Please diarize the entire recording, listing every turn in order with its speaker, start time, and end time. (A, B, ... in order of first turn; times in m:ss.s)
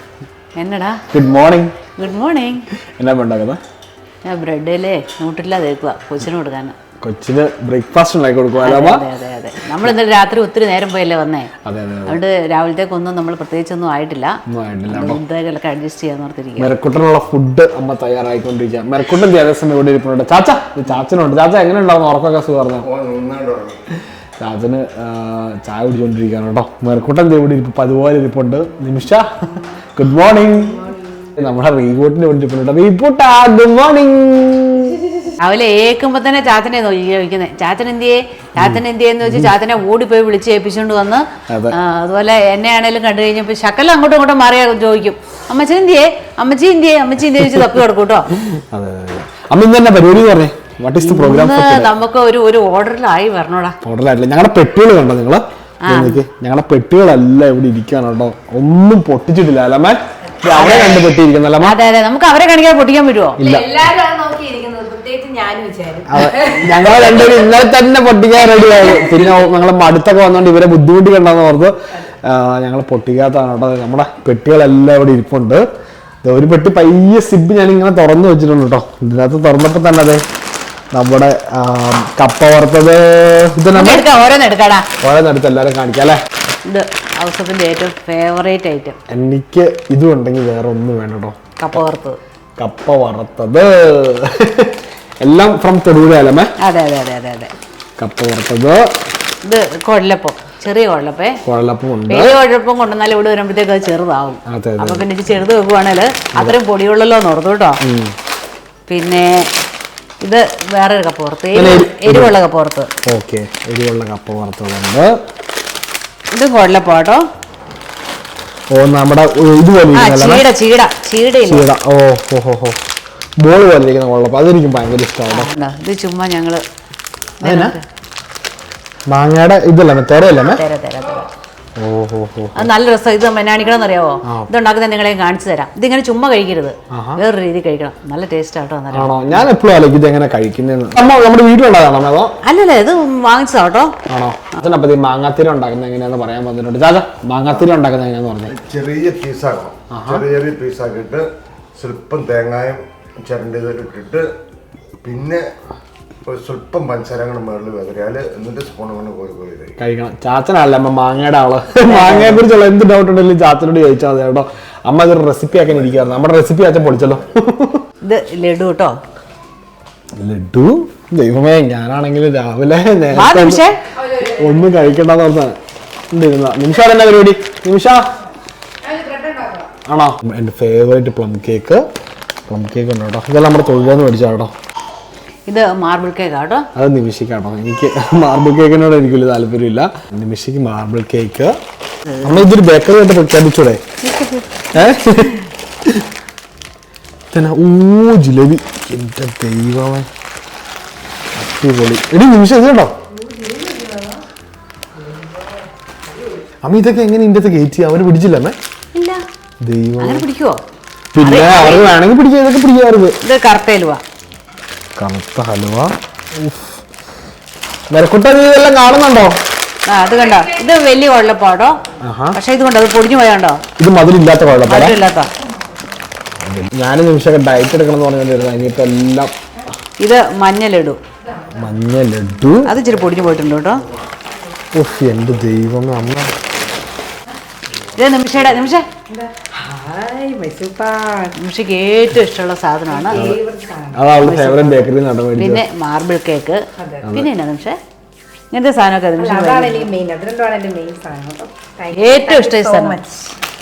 0:00.6-0:01.0 A
0:01.1-0:01.8 B
0:02.0-0:02.6 A
0:03.0-0:03.6 B
0:04.2-0:06.7 A
0:07.0-0:09.1 B
0:08.6-0:11.5 A
0:11.6-0:12.2 B
0:12.1-0:14.4 A
0:14.5-0:15.2 B
0:14.9-0:16.7 A
0:16.6-0:22.9 B
0:22.8-0:23.8 C
0:24.4-0:35.0 B
0:35.4-0:48.4 A
0:38.6-0:39.5 B
0:41.5-0:41.8 B
0:47.4-0:47.6 B
0:48.4-0:51.9 B
0:51.0-0:53.8 A
0:53.8-1:01.8 B
0:55.8-0:56.2 A
1:00.5-1:01.1 A
1:01.6-1:03.4 A
1:03.4-1:03.7 B
1:03.4-1:07.4 D
1:06.1-1:15.6 B
1:16.2-1:20.2 B
1:20.9-1:24.1 B
1:23.7-1:24.9 A
1:25.0-1:26.2 B
1:26.6-1:29.0 A
1:29.1-1:31.8 B
1:31.6-1:32.2 A
1:32.6-1:36.5 B
1:36.6-1:37.5 A
1:38.0-1:38.8 B
1:39.4-1:41.4 A
1:41.4-1:42.3 B
1:42.1-1:47.8 A
1:44.5-1:45.0 B
1:47.8-1:48.1 B
1:48.9-1:49.5 A
1:50.2-1:52.9 A
1:51.5-1:52.3 B
1:53.0-1:55.2 B
1:56.3-1:57.2 A
1:58.7-2:00.4 B
1:59.9-2:01.6 A
2:01.4-2:02.8 B
2:03.4-2:05.5 B
2:05.3-2:06.6 A
2:07.4-2:07.8 A
2:07.4-2:07.7 B
2:09.1-2:10.6 B
2:10.4-2:11.3 A
2:11.8-2:12.7 B
2:12.5-2:19.1 A
2:14.2-2:14.5 B
2:16.9-2:17.2 B
2:18.9-2:22.3 B
2:22.4-2:23.9 A
2:24.1-2:28.5 B
2:28.4-2:34.3 C
2:29.9-2:30.2 B
2:35.0-2:35.4 C
2:36.2-2:39.8 C
2:39.8-2:47.8 B
2:41.8-2:42.4 A
2:45.5-2:46.3 C
2:46.9-2:47.3 C
2:48.0-2:49.0 A
2:50.2-2:53.6 B
2:53.1-2:53.8 A
2:53.9-2:54.8 D
2:54.4-2:55.6 B
2:56.1-2:58.1 B
2:58.8-2:59.7 D
2:59.8-3:01.8 B
3:02.5-3:04.5 B
3:05.5-3:06.7 A
3:06.7-3:11.6 B
3:12.2-3:13.8 B
3:14.0-3:14.4 A
3:14.7-3:16.0 B
3:17.3-3:20.1 B
3:21.3-3:22.9 B
3:23.1-3:24.2 D
3:25.0-3:26.4 D
3:26.6-3:28.6 B
3:28.9-3:29.2 A
3:29.6-3:30.2 B
3:30.0-3:30.6 A
3:31.1-3:33.2 B
3:31.2-3:31.8 A
3:33.2-3:34.0 A
3:35.0-3:36.8 B
3:37.9-3:39.4 B
3:39.9-3:41.8 A
3:40.1-3:40.6 D
3:42.0-3:42.4 B
3:42.3-3:43.6 A
3:43.8-3:45.0 B
3:44.6-3:45.3 A
3:45.1-3:45.8 D
3:46.4-3:49.3 B
3:50.0-3:51.0 A
3:51.2-3:51.7 D
3:51.6-3:52.7 B
3:52.6-3:53.8 A
3:54.7-3:56.3 B
3:58.0-3:58.8 A
3:59.1-4:01.3 D
4:01.4-4:03.2 A
4:02.9-4:04.0 D
4:03.1-4:03.4 B
4:03.9-4:05.6 B
4:04.2-4:07.8 A
4:06.8-4:07.1 D
4:07.0-4:07.3 B
4:08.5-4:09.9 A
4:09.2-4:13.4 D
4:11.9-4:13.0 A